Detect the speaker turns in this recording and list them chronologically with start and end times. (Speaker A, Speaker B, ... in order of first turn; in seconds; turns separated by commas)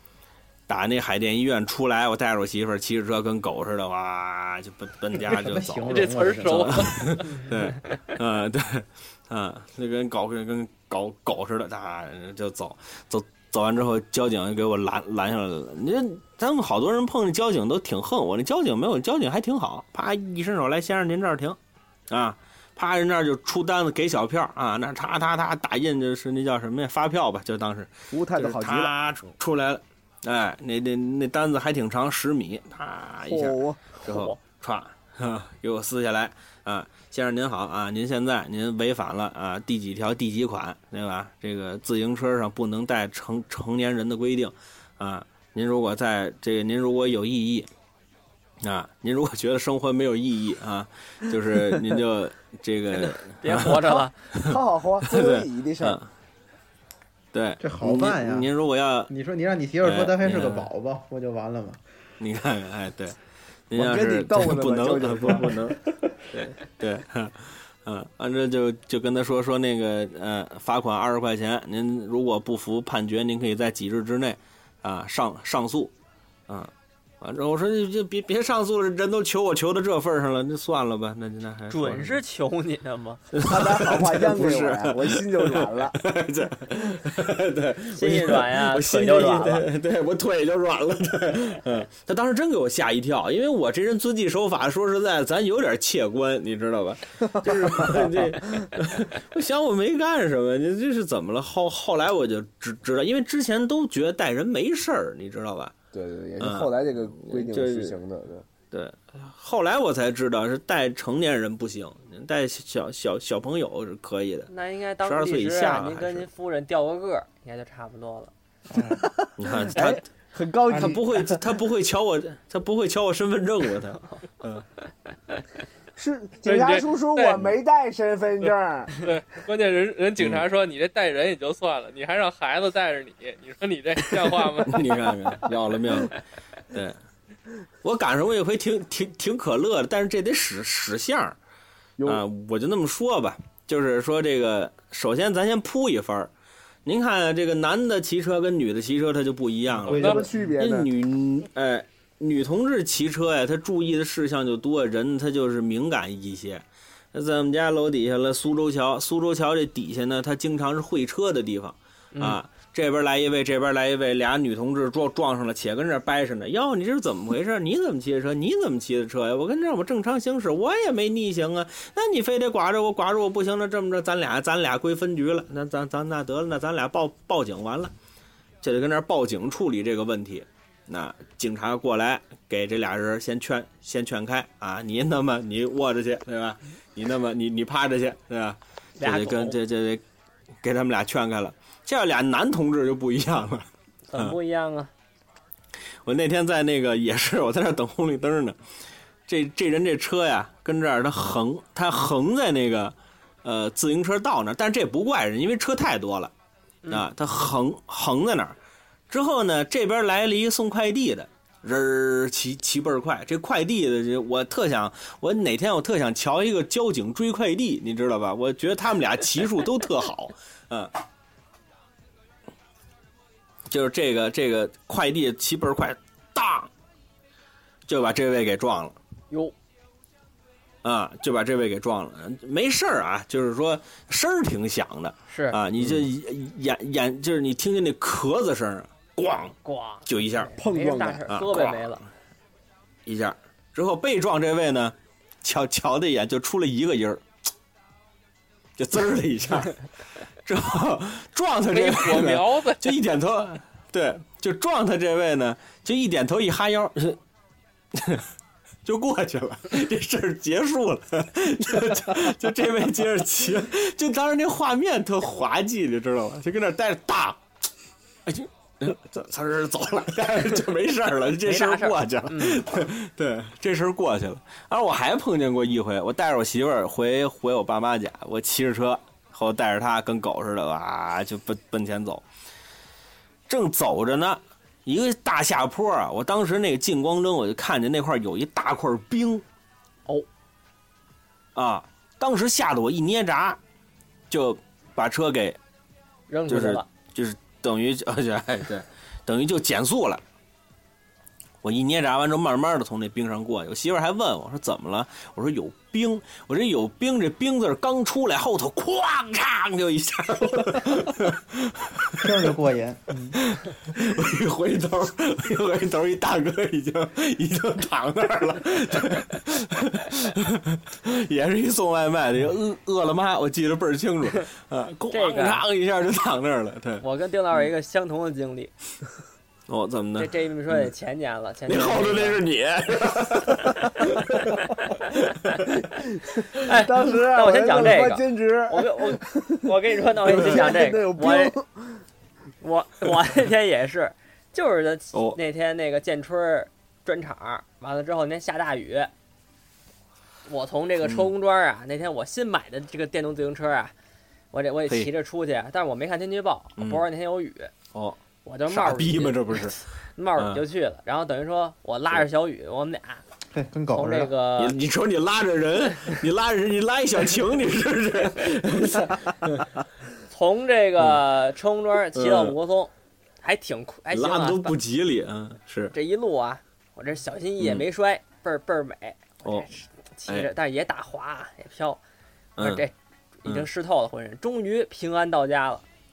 Speaker A: 0.7-21.6, Speaker B: 5.2-6.9, Speaker C: 5.9-7.2, Speaker A: 22.1-47.7, Speaker D: 28.1-28.9, Speaker D: 33.2-33.8, Speaker E: 34.0-34.4, Speaker A: 48.6-53.8, Speaker E: 53.2-54.1, Speaker D: 53.5-56.0, Speaker A: 55.1-56.1, Speaker A: 57.3-59.1, Speaker B: 57.6-58.5, Speaker B: 59.1-61.8, Speaker A: 59.8-60.7, Speaker A: 62.2-63.1, Speaker A: 63.7-75.9, Speaker D: 63.7-65.7, Speaker A: 76.5-82.2, Speaker E: 81.7-83.2, Speaker A: 83.3-105.7, Speaker D: 83.4-86.0, Speaker E: 87.9-89.7, Speaker D: 97.4-98.7, Speaker D: 105.9-108.5, Speaker A: 106.4-108.0, Speaker A: 108.7-114.5, Speaker E: 114.5-118.3, Speaker A: 115.0-116.3, Speaker B: 118.7-119.0, Speaker D: 118.8-121.4, Speaker A: 119.4-120.0, Speaker A: 120.7-124.6, Speaker D: 126.0-128.9, Speaker C: 126.4-127.5, Speaker C: 128.4-134.8, Speaker A: 130.2-130.4, Speaker A: 134.7-136.2, Speaker A: 136.7-137.0, Speaker A: 137.8-141.3, Speaker D: 142.0-142.2, Speaker A: 142.0-146.3, Speaker A: 146.8-177.9, Speaker B: 149.8-150.5, Speaker D: 149.9-150.9, Speaker E: 162.1-162.4, Speaker A: 178.6-190.0, Speaker E: 189.0-189.6, Speaker A: 190.6-194.3, Speaker E: 194.1-194.9, Speaker A: 196.0-198.6, Speaker A: 199.3-206.3, Speaker A: 206.9-208.6, Speaker A: 209.1-220.9, Speaker A: 223.7-226.7, Speaker A: 227.9-229.0, Speaker A: 230.8-240.5, Speaker E: 235.3-235.6, Speaker E: 239.6-242.0, Speaker D: 240.6-241.3, Speaker A: 241.3-242.1, Speaker A: 243.1-247.2, Speaker A: 248.8-249.8, Speaker A: 250.4-257.2, Speaker C: 251.7-252.8, Speaker A: 257.9-258.2, Speaker A: 258.8-267.4, Speaker A: 268.2-282.2, Speaker E: 271.4-272.8, Speaker A: 283.5-289.4, Speaker A: 291.5-293.6, Speaker A: 294.3-295.6, Speaker E: 296.3-296.9, Speaker A: 296.5-300.2, Speaker A: 301.6-312.3, Speaker B: 312.2-313.4, Speaker A: 313.4-327.0, Speaker E: 325.1-325.6, Speaker E: 327.0-328.7, Speaker A: 329.7-330.9, Speaker E: 330.2-332.4, Speaker A: 331.7-334.6, Speaker A: 335.3-335.6, Speaker D: 336.2-342.0, Speaker E: 336.6-341.6, Speaker E: 342.6-349.1, Speaker A: 345.1-345.4, Speaker E: 350.5-353.9, Speaker A: 351.0-351.3, Speaker E: 354.5-357.7, Speaker A: 356.8-357.0, Speaker A: 357.9-359.8, Speaker E: 358.4-363.2, Speaker A: 360.4-360.6, Speaker B: 363.5-364.3, Speaker E: 363.9-364.8, Speaker A: 364.6-369.6, Speaker E: 370.3-374.7, Speaker A: 372.1-372.5, Speaker A: 374.1-375.9, Speaker E: 375.9-382.0, Speaker A: 377.6-377.8, Speaker A: 382.6-382.8, Speaker E: 382.6-385.8